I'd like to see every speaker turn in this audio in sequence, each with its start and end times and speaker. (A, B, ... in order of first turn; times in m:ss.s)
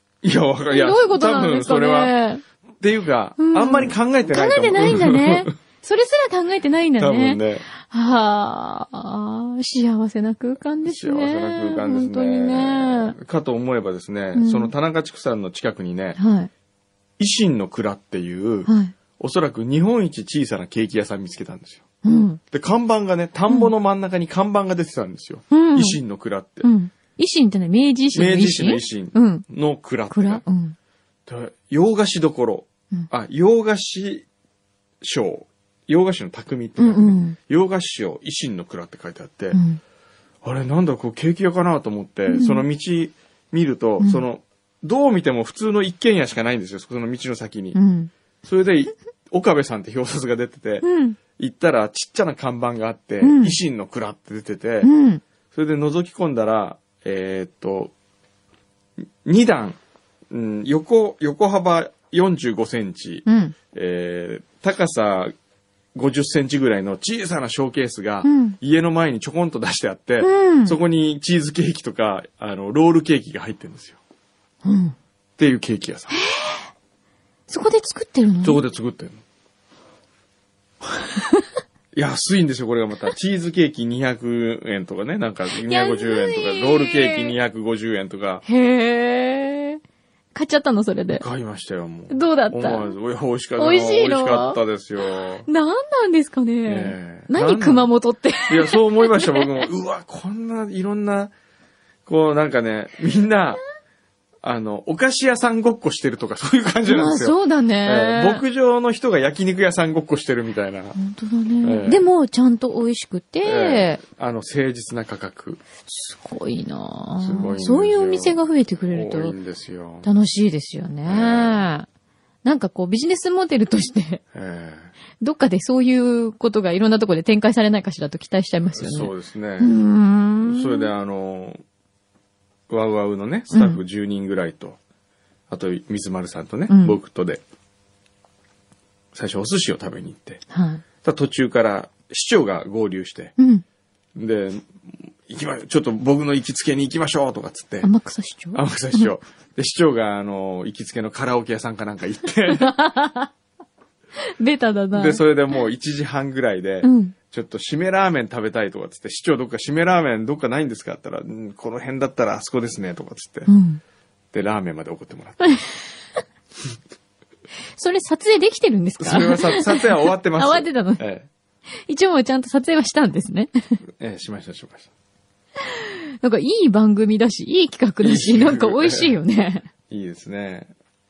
0:00.2-0:02.1 A
0:00.7-0:02.4 B
0:02.8-0:05.5 A
0:03.4-0:13.2 B
0:07.0-0:07.6 A
0:10.8-0:16.2 A
0:14.3-0:14.7 B
0:16.2-0:16.5 B
0:17.2-0:21.8 A
0:18.7-0:18.9 B
0:22.0-0:22.4 B
0:22.5-0:26.7 A
0:25.5-0:26.0 B
0:26.6-0:29.4 B
0:28.1-0:30.4 A
0:30.1-0:30.8 B
0:31.3-0:34.2 A
0:35.0-0:39.6 A
0:36.8-0:37.4 B
0:39.5-0:39.8 B
0:40.4-0:47.8 A
0:42.3-0:42.6 B
0:47.7-0:48.1 B
0:48.4-0:54.9 A
0:50.8-0:51.2 B
0:53.2-0:53.6 B
0:54.8-0:55.2 B
0:55.5-0:57.9 A
0:59.2-0:59.8 A
1:00.3-1:05.3 A
1:03.2-1:03.5 B
1:05.9-1:14.0 A
1:08.2-1:08.6 B
1:10.2-1:10.8 B
1:14.6-1:15.0 B
1:15.4-1:16.2 A
1:16.1-1:16.6 B
1:17.5-1:18.6 B
1:18.4-1:19.2 A
1:21.1-1:21.4 B
1:21.9-1:28.4 A
1:25.5-1:27.4 B
1:28.4-1:29.8 B
1:30.3-1:31.2 B
1:31.1-1:35.5 A
1:32.1-1:32.9 B
1:33.6-1:34.6 B
1:35.4-1:39.7 B
1:36.6-1:37.9 A
1:38.5-1:41.3 A
1:42.0-1:43.6 A
1:44.4-1:51.0 A
1:46.8-1:48.4 B
1:51.0-1:54.0 B
1:51.6-1:52.0 A
1:53.4-1:55.6 A
1:55.8-1:59.3 B
1:57.2-2:00.1 A
2:00.0-2:01.9 B
2:01.0-2:01.6 A
2:02.4-2:04.2 B
2:04.3-2:04.9 A
2:05.2-2:10.9 B
2:08.7-2:09.7 A
2:10.4-2:11.6 A
2:12.7-2:14.8 A
2:13.5-2:13.8 B
2:15.5-2:17.4 A
2:16.7-2:17.0 B
2:19.1-2:20.4 A
2:20.5-2:20.8 B
2:21.0-2:23.3 A
2:23.4-2:23.6 B
2:24.1-2:27.9 A
2:27.8-2:29.1 B
2:28.5-2:32.7 A
2:32.5-2:33.3 B
2:34.2-2:35.2 B
2:34.9-2:43.5 A
2:36.8-2:37.1 B
2:43.5-2:43.8 B
2:44.3-2:45.5 A
2:45.4-2:45.8 B
2:47.7-2:51.0 B
2:49.0-2:51.3 A
2:51.8-2:53.8 B
2:54.0-2:54.9 A
2:55.6-2:59.6 B
2:58.0-2:59.1 A
2:59.9-3:00.7 A